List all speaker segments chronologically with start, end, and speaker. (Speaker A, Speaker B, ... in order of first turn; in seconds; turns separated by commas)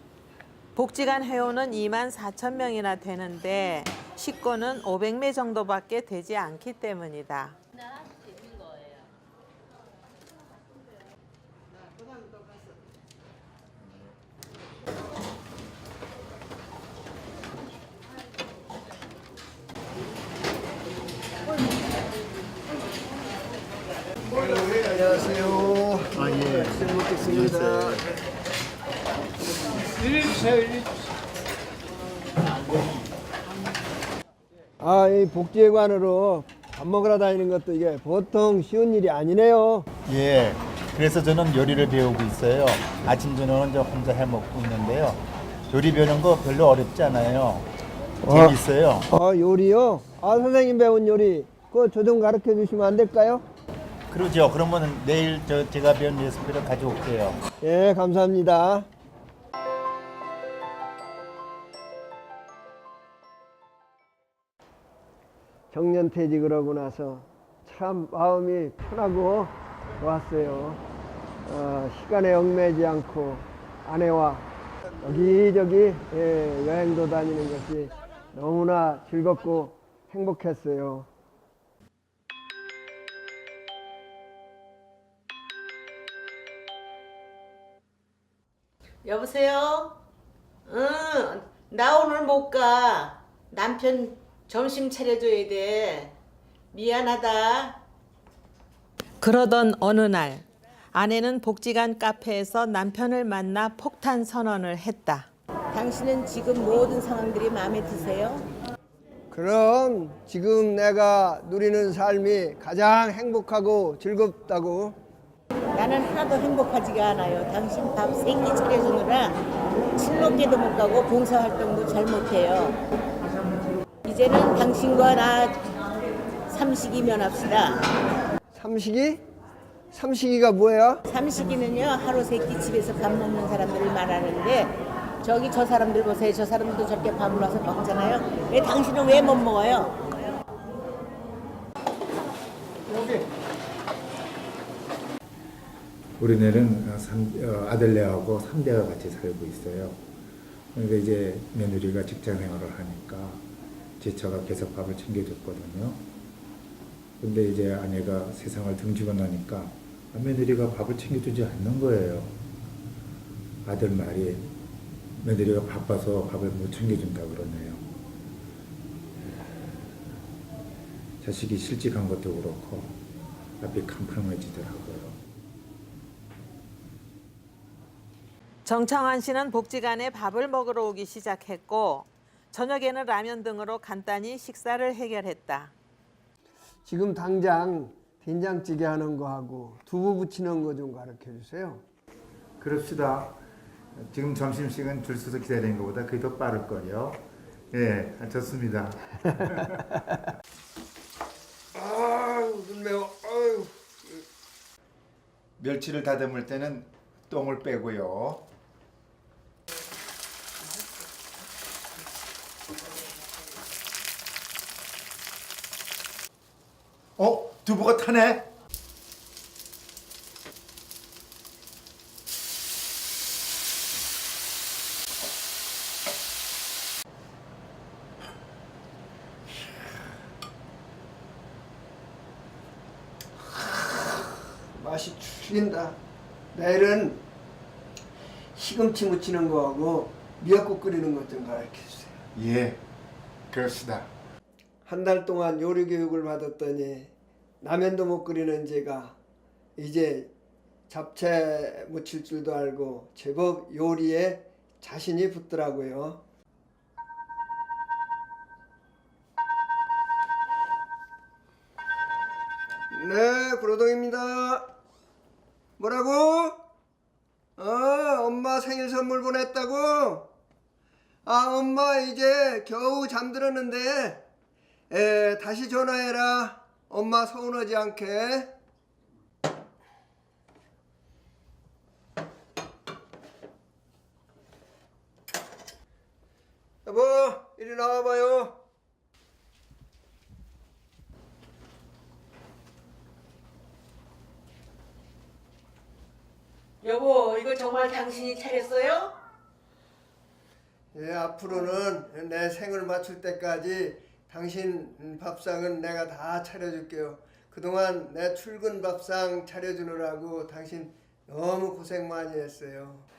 Speaker A: 0.8-7.6, Speaker B: 24.4-26.1, Speaker C: 26.1-28.1, Speaker B: 26.8-28.0, Speaker B: 34.8-39.9, Speaker C: 40.1-47.7, Speaker B: 48.2-48.6, Speaker C: 48.3-49.1, Speaker B: 49.1-53.4, Speaker C: 54.1-57.4, Speaker B: 57.6-58.9, Speaker B: 65.7-70.8, Speaker B: 71.5-74.5, Speaker B: 75.0-81.1, Speaker D: 89.0-90.0, Speaker D: 90.7-96.2, Speaker D: 96.7-97.8, Speaker A: 99.2-105.3, Speaker D: 105.7-108.5, Speaker B: 109.3-115.0, Speaker D: 115.7-119.4, Speaker D: 120.0-122.8, Speaker D: 124.0-125.6, Speaker D: 126.5-127.8, Speaker B: 128.5-129.2, Speaker B: 129.9-131.0, Speaker D: 131.1-140.1, Speaker E: 146.2-150.0, Speaker E: 150.8-153.4, Speaker E: 154.0-156.0, Speaker E: 157.2-162.4, Speaker E: 163.7-164.5, Speaker E: 165.2-167.9, Speaker E: 171.2-173.0, Speaker E: 173.6-175.2, Speaker A: 178.7-185.7, Speaker B: 186.9-191.8, Speaker E: 192.6-193.4, Speaker E: 194.0-199.7, Speaker B: 201.8-203.7, Speaker E: 205.6-208.4, Speaker E: 217.2-218.4, Speaker B: 234.8-236.0, Speaker B: 236.5-237.2, Speaker B: 238.6-242.2, Speaker E: 242.3-242.8, Speaker E: 243.5-244.1, Speaker B: 244.9-247.1, Speaker B: 247.6-249.2, Speaker B: 249.8-250.3, Speaker B: 250.9-256.2, Speaker B: 262.9-264.6, Speaker B: 265.8-266.6, Speaker B: 267.6-270.3, Speaker B: 271.2-274.2, Speaker B: 274.9-278.5, Speaker B: 286.9-288.6, Speaker D: 296.8-299.1, Speaker B: 300.9-313.1, Speaker D: 301.5-301.8